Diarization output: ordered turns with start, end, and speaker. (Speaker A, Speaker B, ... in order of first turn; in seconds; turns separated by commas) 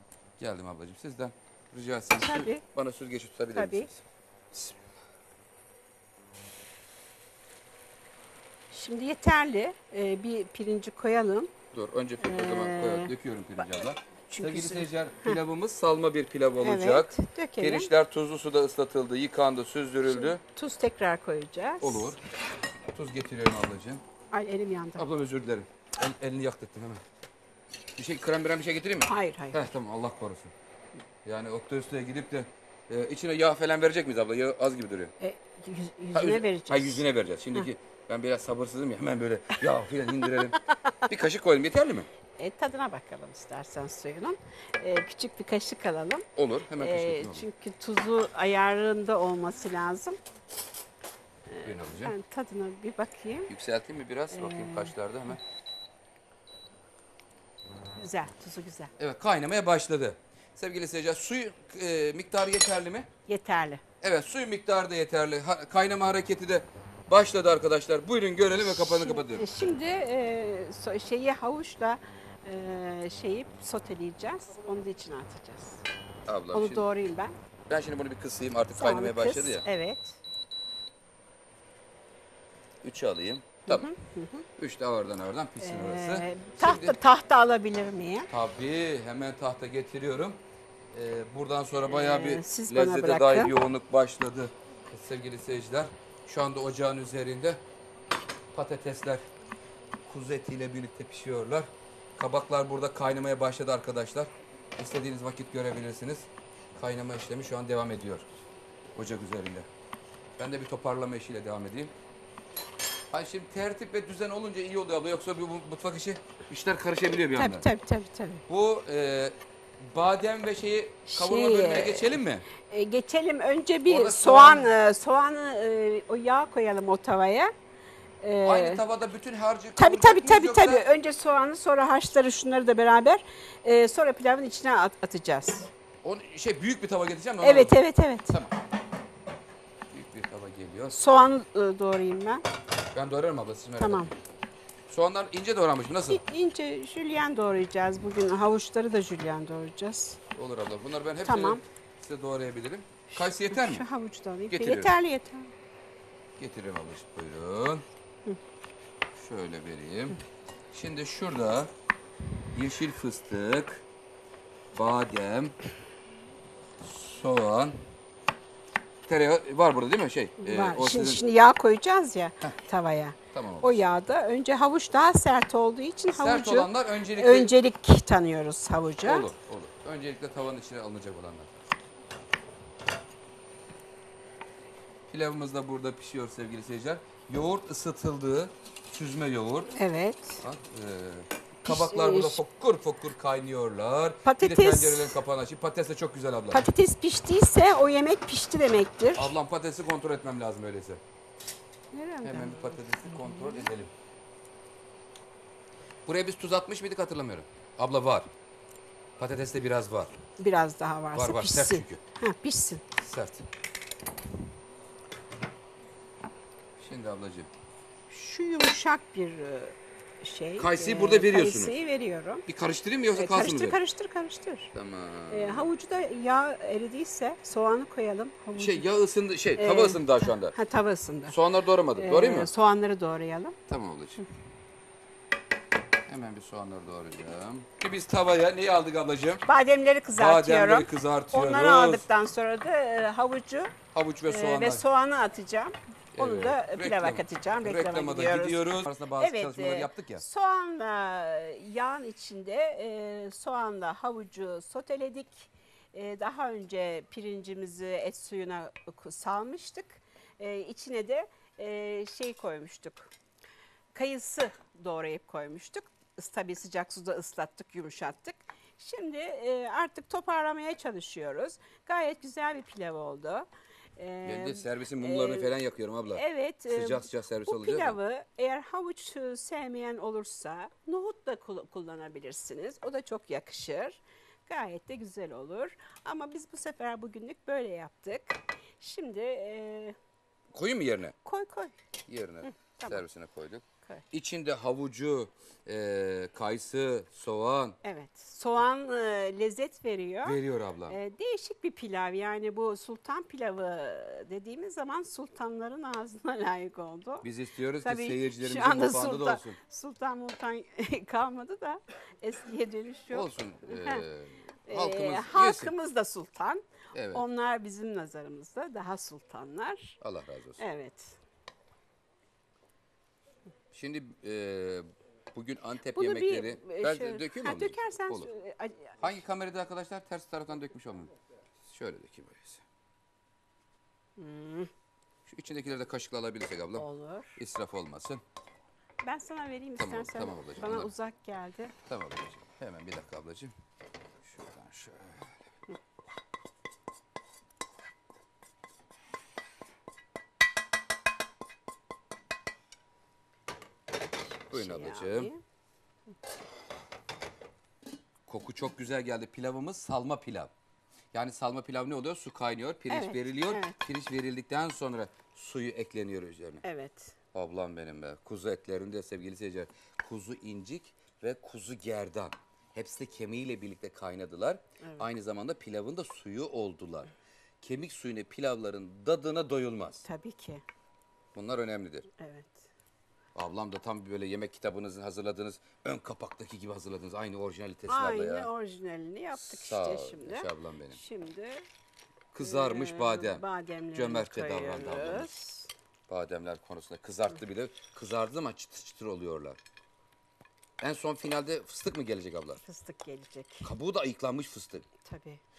Speaker A: 0.4-4.7, Speaker B: 2.2-2.6, Speaker B: 3.5-3.9, Speaker B: 8.7-11.5, Speaker A: 11.7-20.4, Speaker B: 12.2-15.4, Speaker B: 16.6-17.9, Speaker B: 20.1-22.1, Speaker A: 21.8-22.2, Speaker A: 22.9-24.0, Speaker B: 24.3-25.1, Speaker A: 25.0-27.0, Speaker A: 28.0-30.5, Speaker B: 29.1-29.6, Speaker A: 31.2-35.1, Speaker B: 35.2-37.7, Speaker A: 36.1-42.1, Speaker B: 40.1-40.9, Speaker B: 42.4-46.2, Speaker A: 46.4-47.5, Speaker B: 46.8-50.2, Speaker B: 51.5-53.5, Speaker A: 51.6-52.1, Speaker A: 53.5-55.4, Speaker B: 54.3-54.9, Speaker B: 58.0-58.9, Speaker A: 59.0-63.1, Speaker B: 63.3-63.8, Speaker A: 64.0-69.5, Speaker B: 68.6-75.8, Speaker A: 76.3-76.9, Speaker B: 76.5-77.3, Speaker A: 77.7-79.7, Speaker B: 78.8-80.2, Speaker A: 82.8-83.9, Speaker B: 83.7-84.5, Speaker A: 84.6-87.0, Speaker B: 85.6-88.3, Speaker A: 88.3-90.4, Speaker A: 90.9-97.6, Speaker B: 91.8-93.5, Speaker A: 98.5-99.3, Speaker A: 100.0-108.3, Speaker A: 109.0-109.7, Speaker A: 110.4-111.9, Speaker A: 113.1-117.7, Speaker B: 117.3-118.5, Speaker A: 118.5-122.5, Speaker B: 121.1-127.5, Speaker A: 123.9-124.8, Speaker B: 128.2-128.8, Speaker A: 128.4-130.8, Speaker B: 129.8-135.7, Speaker A: 136.0-138.6, Speaker B: 137.4-138.4, Speaker A: 139.9-141.0, Speaker B: 140.9-142.4, Speaker A: 142.9-144.1, Speaker B: 143.8-144.1, Speaker A: 144.9-146.2, Speaker B: 146.1-150.2, Speaker A: 150.3-153.8, Speaker B: 151.2-151.6, Speaker B: 153.2-155.5, Speaker A: 154.5-154.9, Speaker A: 156.4-157.8, Speaker A: 159.2-160.2, Speaker A: 160.7-161.7, Speaker A: 162.5-163.8, Speaker A: 164.7-165.6, Speaker A: 166.8-167.8, Speaker A: 169.1-171.2, Speaker B: 170.4-179.3, Speaker A: 173.3-173.8, Speaker A: 176.1-177.5, Speaker A: 179.1-181.5, Speaker A: 185.1-189.7, Speaker B: 189.7-190.4, Speaker A: 190.4-196.7, Speaker B: 191.7-192.4, Speaker B: 194.2-195.2, Speaker B: 196.5-199.3, Speaker A: 199.2-201.0, Speaker B: 201.9-203.7, Speaker A: 202.2-203.9, Speaker A: 206.1-208.3, Speaker A: 209.2-210.1, Speaker B: 210.4-212.8, Speaker A: 211.1-212.0, Speaker A: 213.0-213.5, Speaker A: 216.8-217.5, Speaker B: 218.1-222.5, Speaker A: 220.6-221.8, Speaker A: 222.5-223.8, Speaker B: 223.2-224.7, Speaker A: 224.7-225.7, Speaker B: 225.3-228.9, Speaker A: 228.6-230.6, Speaker B: 229.6-231.4, Speaker A: 231.3-232.5, Speaker B: 231.9-233.6, Speaker A: 233.7-234.2, Speaker A: 236.1-239.5, Speaker B: 239.5-243.7, Speaker A: 240.2-242.1, Speaker A: 243.9-244.8, Speaker B: 244.3-263.1, Speaker A: 246.2-250.2, Speaker B: 263.9-275.5, Speaker A: 274.2-278.0, Speaker B: 276.1-290.0, Speaker A: 290.5-291.2, Speaker B: 291.2-291.7, Speaker A: 292.1-297.8, Speaker B: 292.6-293.0, Speaker B: 297.8-307.3, Speaker A: 300.2-301.0, Speaker A: 307.2-309.6, Speaker B: 307.8-314.1, Speaker A: 313.1-315.7, Speaker B: 314.7-320.0, Speaker A: 316.9-317.2, Speaker A: 320.0-320.6, Speaker B: 320.6-321.2, Speaker A: 323.7-328.3, Speaker B: 325.9-329.0, Speaker A: 329.0-331.1, Speaker A: 331.7-332.6, Speaker B: 334.2-334.7, Speaker A: 335.3-338.2, Speaker B: 336.8-337.4, Speaker B: 339.0-341.7, Speaker A: 339.8-340.9, Speaker A: 341.9-343.5, Speaker A: 344.2-345.4, Speaker B: 354.5-355.4, Speaker A: 354.5-355.3, Speaker A: 358.3-360.5, Speaker A: 361.1-366.6, Speaker B: 362.9-363.8, Speaker B: 366.6-367.2, Speaker A: 367.3-377.1, Speaker A: 377.6-380.0, Speaker B: 380.0-380.6, Speaker A: 381.4-382.1, Speaker B: 382.2-382.7, Speaker A: 383.4-388.5, Speaker B: 387.9-391.6, Speaker A: 389.3-391.0, Speaker A: 392.3-395.3, Speaker B: 392.4-395.7, Speaker A: 396.1-399.6, Speaker A: 400.8-402.6, Speaker B: 402.6-403.7, Speaker A: 403.6-404.9, Speaker B: 405.0-405.4